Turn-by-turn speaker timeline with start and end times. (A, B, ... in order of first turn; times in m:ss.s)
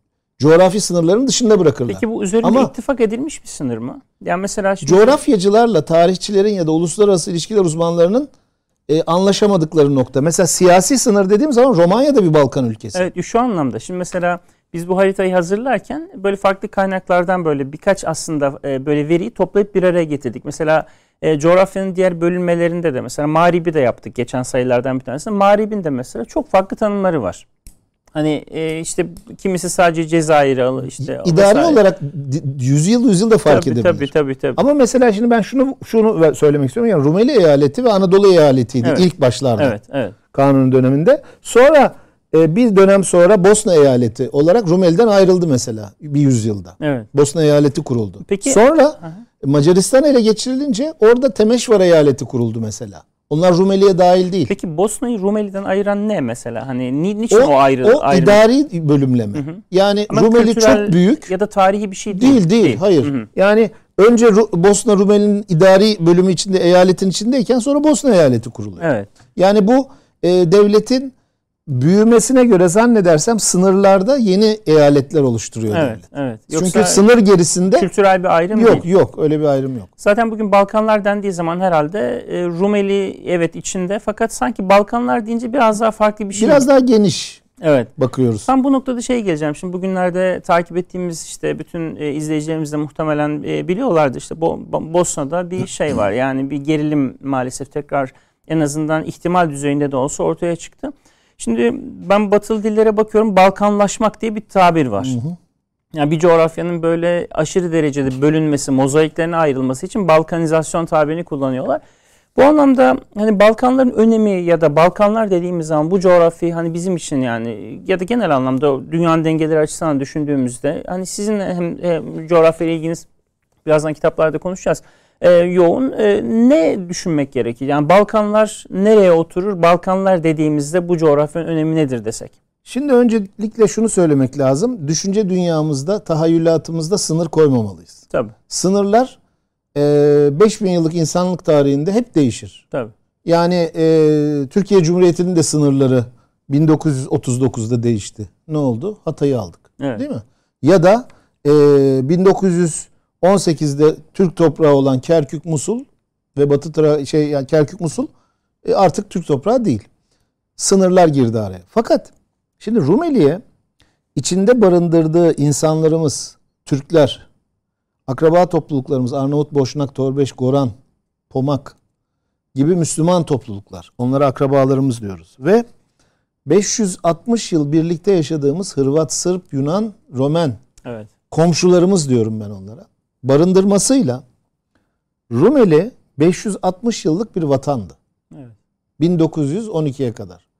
0:00.4-0:02.7 A
0:01.9-0:05.2 B
0:04.8-0:08.3 A
0:08.9-0:13.1 A
0:12.9-0:27.4 B
0:28.1-0:31.8 B
0:31.0-0:39.7 A
0:33.4-0:34.6 B
0:38.8-0:40.1 B
0:40.3-0:54.5 A
0:46.8-0:47.1 B
0:48.2-0:49.2 B
0:54.5-0:58.4 B
0:57.3-1:01.3 A
0:59.3-1:03.3 B
1:02.1-1:08.8 A
1:08.8-1:09.1 B
1:09.4-1:11.1 A
1:11.7-1:17.9 A
1:15.7-1:17.0 B
1:17.8-1:18.8 B
1:18.5-1:19.9 A
1:20.0-1:26.6 B
1:26.4-1:27.4 A
1:27.6-1:27.9 B
1:28.0-1:28.5 A
1:28.5-1:45.2 B
1:45.0-1:45.4 A
1:45.9-1:51.8 B
1:52.3-2:03.1 B
2:03.6-2:12.3 B
2:12.6-2:19.2 A
2:19.7-2:22.6 A
2:23.2-2:38.1 A
2:29.8-2:30.0 B
2:38.6-2:39.8 A
2:40.6-2:43.4 A
2:44.1-2:47.2 A
2:48.1-2:50.7 A
2:51.3-2:51.8 A
2:52.5-2:55.6 A
2:56.4-3:00.6 A
3:00.8-3:01.1 B
3:01.3-3:04.2 A
3:05.3-3:08.0 A
3:09.0-3:10.4 A